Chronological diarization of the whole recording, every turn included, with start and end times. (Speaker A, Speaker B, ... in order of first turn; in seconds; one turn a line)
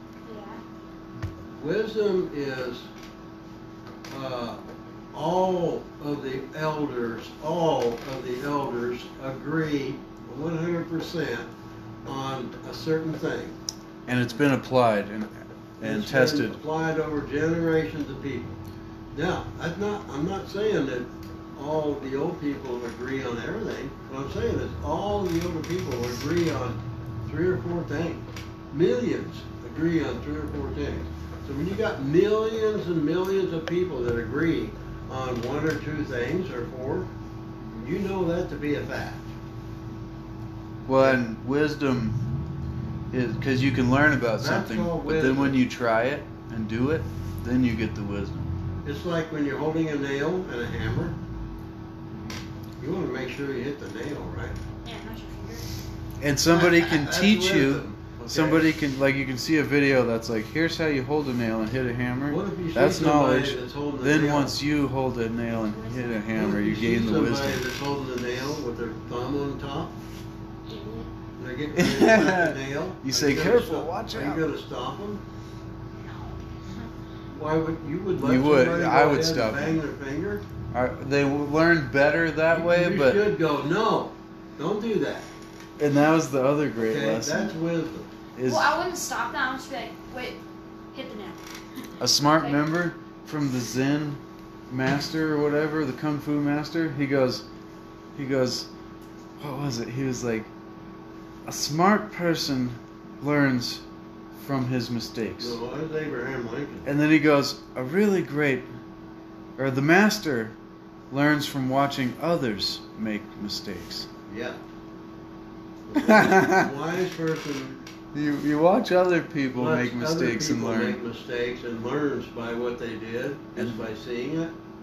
Speaker A: 0.2-0.6
Speaker B: 1.5-2.9
Speaker B: 4.1-4.6
Speaker B: 5.1-11.5
Speaker B: 12.1-13.6
Speaker C: 14.1-16.6
Speaker B: 15.8-18.6
Speaker B: 19.1-37.1
Speaker B: 37.8-39.3
Speaker C: 40.9-42.2
Speaker C: 43.1-48.5
Speaker B: 44.4-45.6
Speaker B: 48.9-51.2
Speaker B: 52.8-54.6
Speaker A: 54.8-55.7
Speaker C: 56.2-67.7
Speaker B: 56.4-58.8
Speaker B: 62.3-64.6
Speaker A: 65.5-66.2
Speaker B: 66.3-69.9
Speaker A: 70.7-71.1
Speaker B: 71.4-75.2
Speaker C: 71.7-74.5
Speaker A: 76.0-76.9
Speaker B: 77.3-80.4
Speaker C: 78.2-79.8
Speaker C: 80.7-83.3
Speaker B: 82.5-85.3
Speaker C: 85.8-87.5
Speaker B: 86.8-88.1
Speaker C: 88.4-88.7
Speaker A: 88.4-90.4
Speaker A: 90.9-92.6
Speaker C: 92.0-97.5
Speaker C: 98.2-98.7
Speaker C: 99.4-100.5
Speaker C: 101.5-103.8
Speaker C: 104.3-105.6
Speaker B: 105.4-106.9
Speaker C: 106.8-108.7
Speaker C: 109.6-110.5
Speaker C: 111.1-114.1
Speaker B: 114.3-114.6
Speaker B: 115.9-117.8
Speaker C: 116.0-116.7
Speaker C: 118.1-121.0
Speaker B: 119.6-124.5
Speaker C: 123.6-123.9